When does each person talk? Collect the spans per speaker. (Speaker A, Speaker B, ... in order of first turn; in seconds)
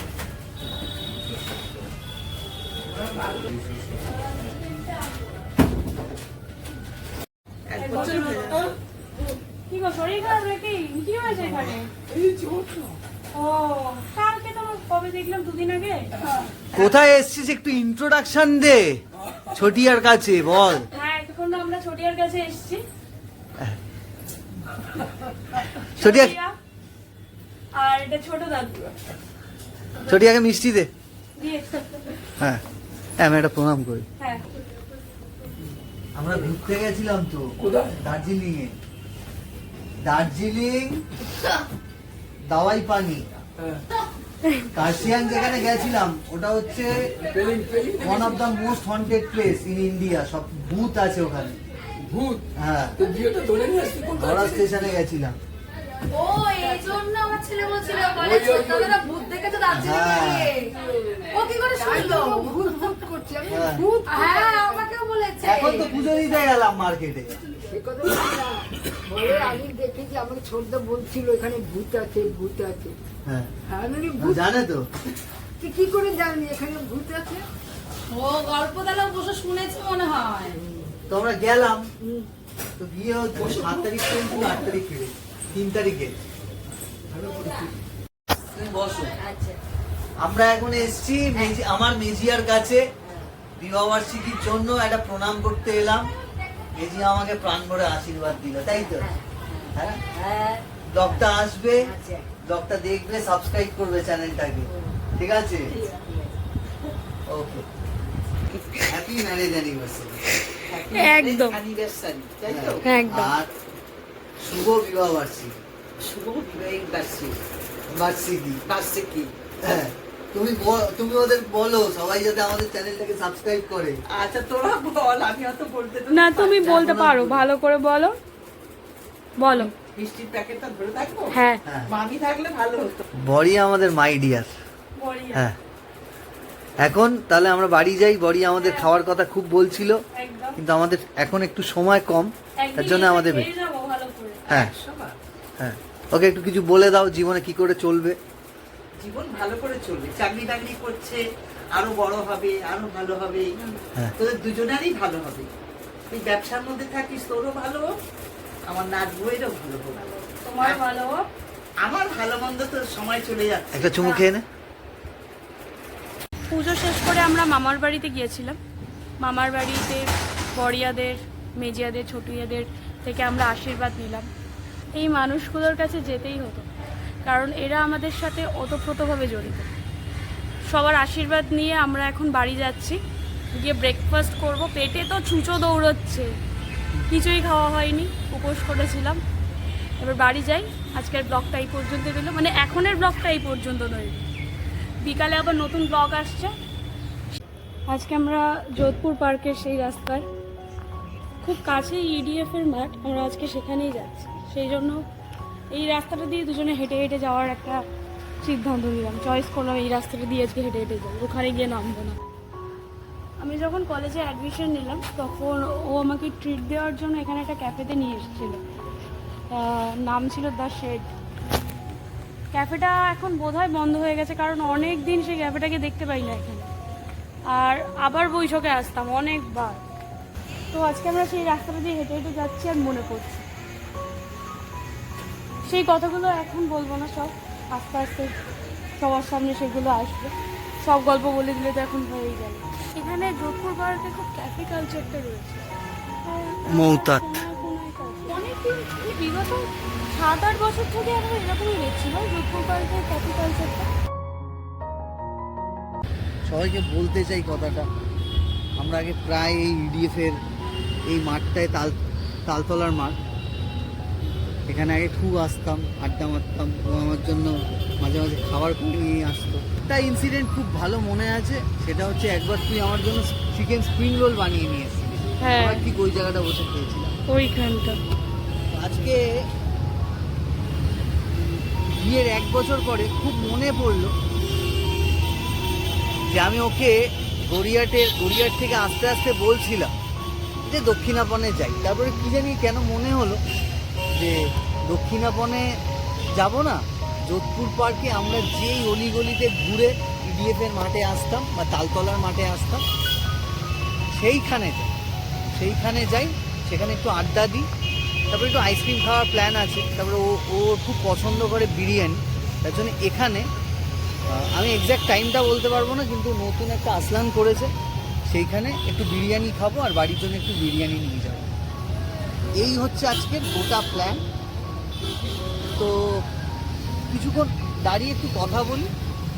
Speaker A: 7.7-8.7, 12.2-12.8, 110.7-112.8, 116.0-117.4, 118.7-119.3, 124.1-127.4, 129.6-133.0, 144.5-145.2, 149.0-155.5, 156.1-158.0, 158.7-160.1, 161.8-164.0
Speaker B: 7.8-8.7, 9.7-11.9, 13.3-16.1, 20.9-22.8, 25.9-26.6, 27.8-28.9, 31.4-32.2, 34.2-34.5, 110.9-111.6, 112.8-113.4, 126.1-128.2, 129.4-129.7, 131.3-131.6, 135.0-135.5, 138.6-138.9, 140.1-140.6, 142.6-144.4, 160.0-161.3, 166.5-168.6, 169.2-174.3, 174.9-176.7, 177.2-179.7, 180.7-183.0, 183.5-186.3, 187.1-189.2, 190.0-194.3, 195.0-196.5, 197.4-200.2, 201.4-205.1, 205.7-207.8, 208.4-212.2, 213.4-218.6, 219.5-221.1, 222.5-226.7, 227.5-229.8, 230.7-233.5, 235.7-238.3, 239.0-245.7, 246.2-253.9, 275.4-275.9, 277.3-278.0
Speaker C: 16.7-19.0, 19.5-20.9, 26.0-26.4, 30.1-30.9, 33.2-34.1, 36.2-38.7, 40.0-41.1, 42.4-43.3, 44.7-47.1, 48.0-51.6, 52.6-53.1, 54.0-55.4, 59.7-60.6, 63.5-63.9, 65.4-67.4, 74.2-74.9, 81.1-81.9, 82.8-86.2, 88.5-89.2, 90.2-92.8, 93.6-96.1, 96.8-99.2, 99.7-100.0, 100.8-105.9, 107.3-107.7, 108.8-110.2, 112.5-113.5, 114.4-115.6, 117.9-118.6, 119.6-124.0, 131.7-131.9, 133.2-134.5, 136.8-140.0, 140.6-143.5, 145.6-148.2, 163.7-164.4, 246.7-247.3, 256.4-257.9, 258.8-260.4, 261.1-263.2, 264.7-277.1, 278.7-279.2, 282.0-284.1, 286.3-289.9, 290.6-293.4, 294.1-295.7, 296.4-302.8, 304.1-305.0, 305.5-307.7, 308.3-313.5, 314.3-317.7, 318.3-321.5, 322.6-324.2, 325.8-326.2, 327.1-328.9
Speaker D: 56.1-60.8, 61.3-62.5, 64.1-65.9, 78.1-80.6
Speaker E: 58.4-58.8, 60.8-65.0, 67.6-73.0, 73.7-74.5, 75.6-77.5